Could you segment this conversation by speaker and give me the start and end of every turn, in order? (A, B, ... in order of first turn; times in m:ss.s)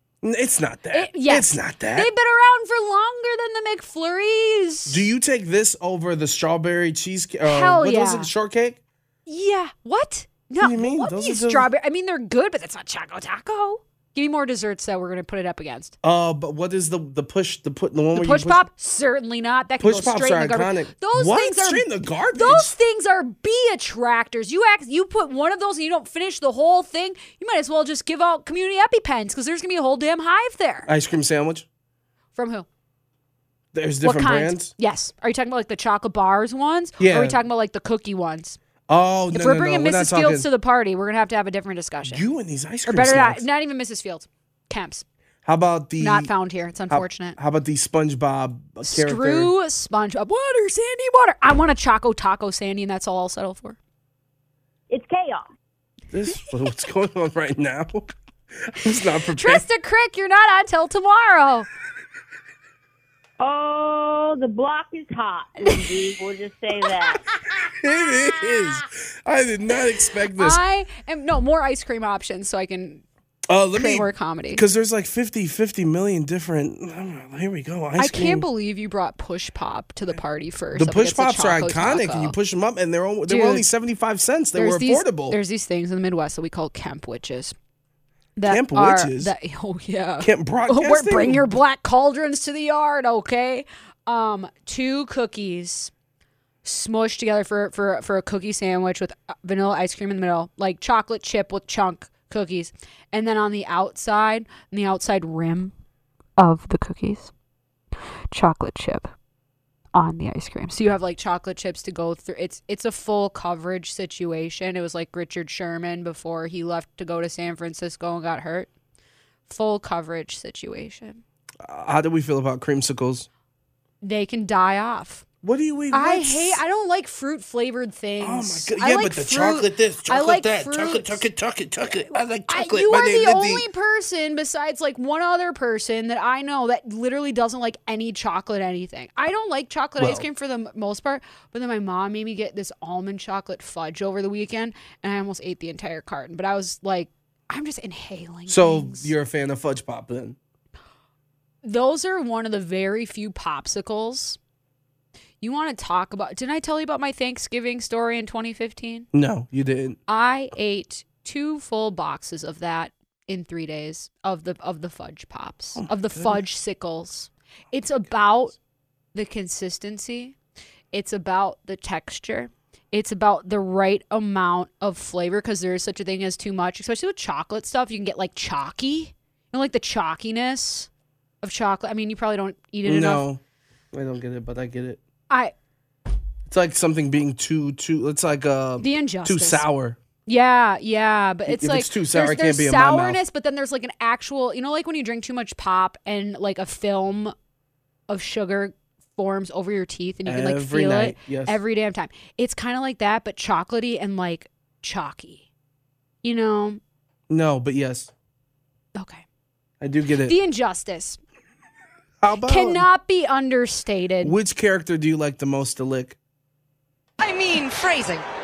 0:00.2-0:02.1 A
0:00.9-0:05.0 B
0:04.9-0:08.8 A
0:07.4-0:08.3 B
0:09.2-0:15.9 B
0:10.6-0:11.7 A
0:16.0-0:18.6 A
0:18.1-0:21.8 B
0:19.8-0:22.7 A
0:22.3-0:30.9 B
0:30.9-0:31.7 A
0:32.3-0:32.7 B
0:33.7-0:34.7 A
0:34.0-0:38.6 B
0:37.0-0:37.4 A
0:38.9-0:40.5 A
0:39.3-0:42.2 B
0:42.0-0:43.4 A
0:42.9-0:45.0 B
0:45.4-0:46.3 A
0:46.0-0:47.4 B
0:46.9-0:49.5 A
0:48.8-0:53.8 B
0:54.9-0:55.4 C
0:56.1-0:59.6 A
0:59.3-1:01.7 B
1:03.4-1:07.2 C
1:07.8-1:10.6 A
1:10.3-1:13.0 B
1:13.5-1:18.4 A
1:13.7-1:14.6 B
1:18.0-1:22.3 B
1:20.8-1:25.4 A
1:23.3-1:23.7 B
1:24.6-1:27.5 B
1:28.4-1:35.9 B
1:28.4-1:29.3 A
1:30.2-1:31.5 A
1:36.6-1:45.7 B
1:46.4-1:47.3 B
1:48.3-1:49.1 B
1:49.9-1:58.7 B
1:59.4-2:01.2 B
2:01.6-2:03.3 A
2:04.0-2:05.2 B
2:05.4-2:06.6 A
2:05.9-2:11.2 B
2:08.2-2:13.6 A
2:12.5-2:29.1 B
2:20.0-2:20.2 A
2:28.5-2:30.4 A
2:31.6-2:34.4 B
2:35.4-2:39.1 B
2:39.1-2:40.0 A
2:40.1-2:48.6 B
2:45.8-2:46.3 A
2:49.1-2:50.4 B
2:50.9-3:00.9 B
3:01.4-3:03.2 B
3:02.8-3:03.4 A
3:03.9-3:05.0 A
3:05.3-3:05.5 B
3:06.5-3:10.0 A
3:08.8-3:09.6 B
3:10.2-3:17.3 B
3:11.5-3:13.2 A
3:18.1-3:25.4 B
3:20.2-3:21.6 A
3:26.2-3:26.8 B
3:27.3-3:28.1 A
3:28.9-3:29.2 B
3:29.8-3:30.4 A
3:30.2-3:31.2 B
3:32.2-3:32.8 A
3:32.3-3:34.3 B
3:34.2-3:36.2 A